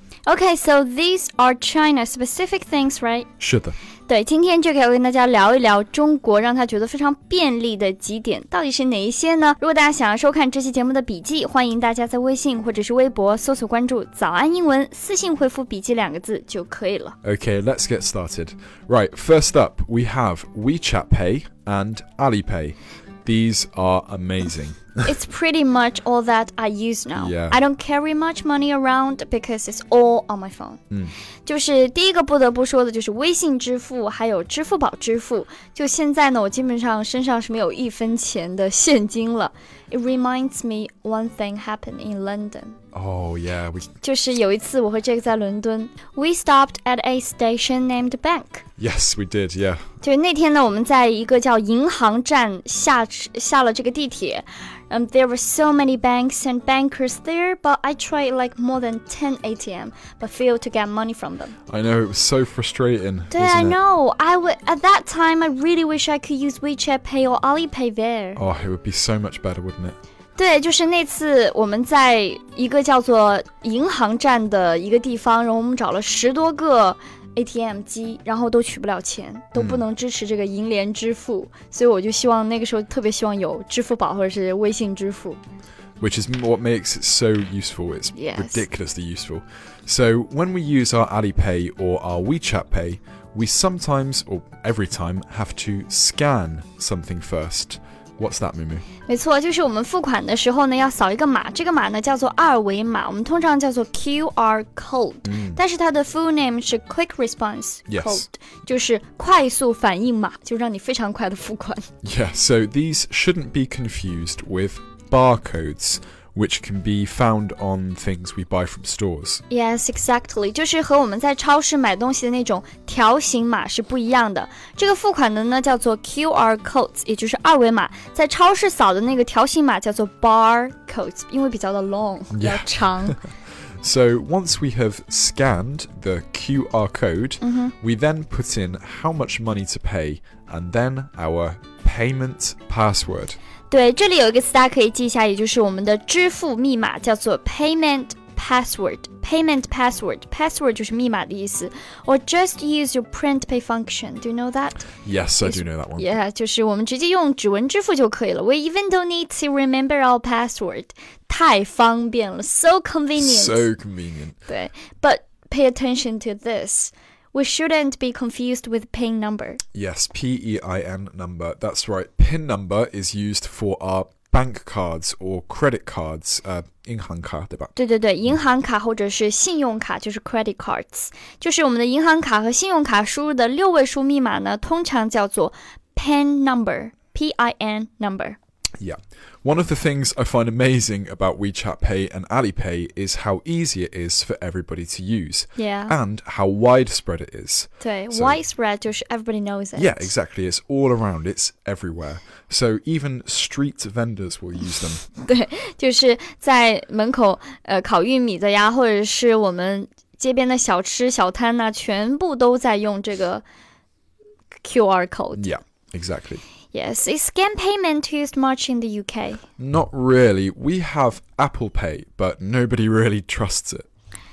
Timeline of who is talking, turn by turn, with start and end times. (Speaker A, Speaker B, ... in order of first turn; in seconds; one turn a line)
Speaker A: 0.3-3.3
Speaker B: 3.4-3.8
Speaker A: 4.1-17.2
Speaker B: 17.2-25.0
Speaker A: 25.0-30.8
Speaker B: 27.1-27.6
Speaker A: 31.5-42.8
Speaker B: 42.9-43.9
Speaker A: 44.0-48.7
Speaker B: 48.8-49.8
Speaker A: 50.0-61.5
Speaker B: 61.7-63.8
Speaker A: 63.3-68.4
Speaker B: 68.4-70.0
Speaker A: 70.4-85.4
Speaker B: 79.6-79.8
Speaker B: 86.0-98.9
Speaker A: 88.2-88.7
Speaker A: 99.1-111.9
Speaker B: 105.3-105.6
Speaker B: 107.9-108.2
Speaker B: 112.0-119.4
Speaker A: 119.5-133.2
Speaker B: 132.3-133.2
Speaker B: 133.8-143.4
Speaker A: 137.4-137.7
Speaker A: 143.7-154.8
Speaker B: 155.0-156.2
Speaker A: 155.4-163.7
Speaker B: 163.2-164.4
Speaker A: 164.5-169.6
Speaker B: 169.8-177.7
Speaker A: 177.8-188.4
Speaker B: 188.8-198.4
Speaker A: 195.6-195.9
Speaker A: 197.8-200.1
Speaker B: 199.8-205.0
Speaker A: 205.2-213.4
Speaker A: 214.6-215.5
Speaker B: 215.4-216.4
Speaker A: 216.7-219.4
Speaker B: 219.6-223.9